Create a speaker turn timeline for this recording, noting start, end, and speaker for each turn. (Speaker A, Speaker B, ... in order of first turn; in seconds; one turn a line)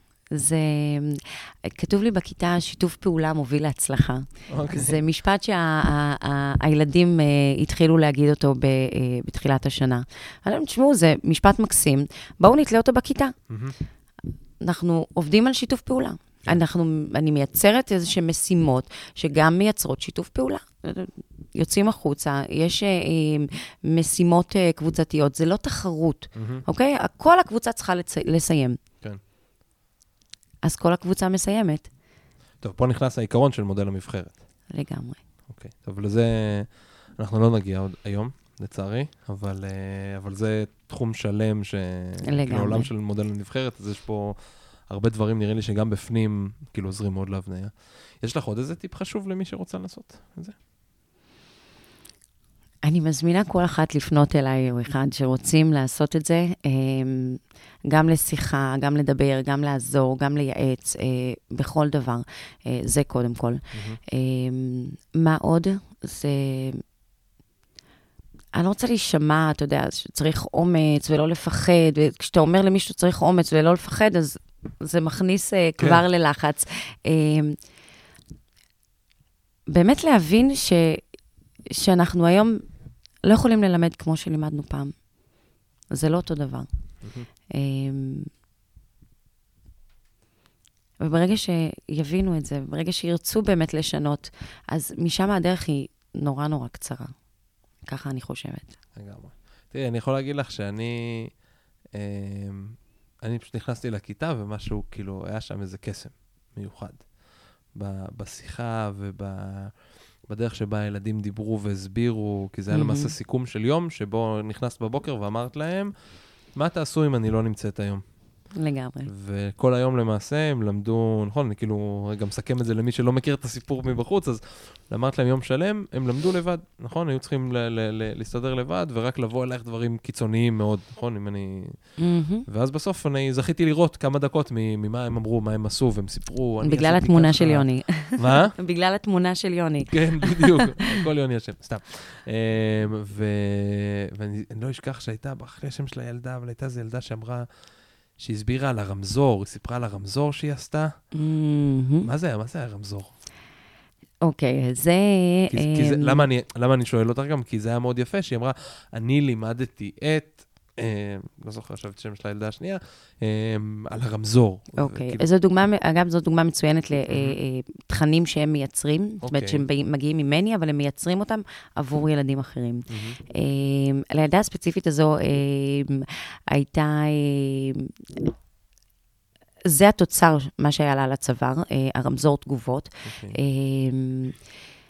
Speaker A: 0.3-13.3
Speaker B: 4.5-5.0
Speaker B: 13.5-13.7
Speaker A: 14.6-28.8
Speaker B: 26.4-26.6
Speaker A: 30.6-31.9
Speaker B: 32.6-34.4
Speaker A: 34.7-35.2
Speaker B: 35.5-50.5
Speaker A: 42.3-42.9
Speaker A: 52.8-66.8
Speaker B: 63.7-64.0
Speaker A: 68.5-77.6
Speaker B: 75.8-76.0
Speaker A: 79.7-81.0
Speaker A: 81.7-82.6
Speaker A: 83.2-85.0
Speaker A: 85.9-86.7
Speaker B: 87.0-87.3
Speaker A: 87.5-88.3
Speaker A: 91.0-97.1
Speaker A: 97.9-98.8
Speaker B: 99.0-101.3
Speaker B: 101.9-107.1
Speaker B: 107.7-115.9
Speaker A: 112.7-113.1
Speaker B: 116.5-118.0
Speaker A: 118.5-119.1
Speaker B: 119.1-138.6
Speaker A: 132.0-132.4
Speaker A: 136.6-141.0
Speaker B: 139.9-147.5
Speaker B: 148.2-151.0
Speaker A: 151.1-152.1
Speaker B: 152.0-153.1
Speaker A: 154.2-156.3
Speaker B: 155.5-165.2
Speaker A: 164.8-177.9
Speaker B: 167.1-167.4
Speaker B: 169.2-169.7
Speaker B: 172.9-173.2
Speaker A: 179.6-184.4
Speaker B: 183.1-183.4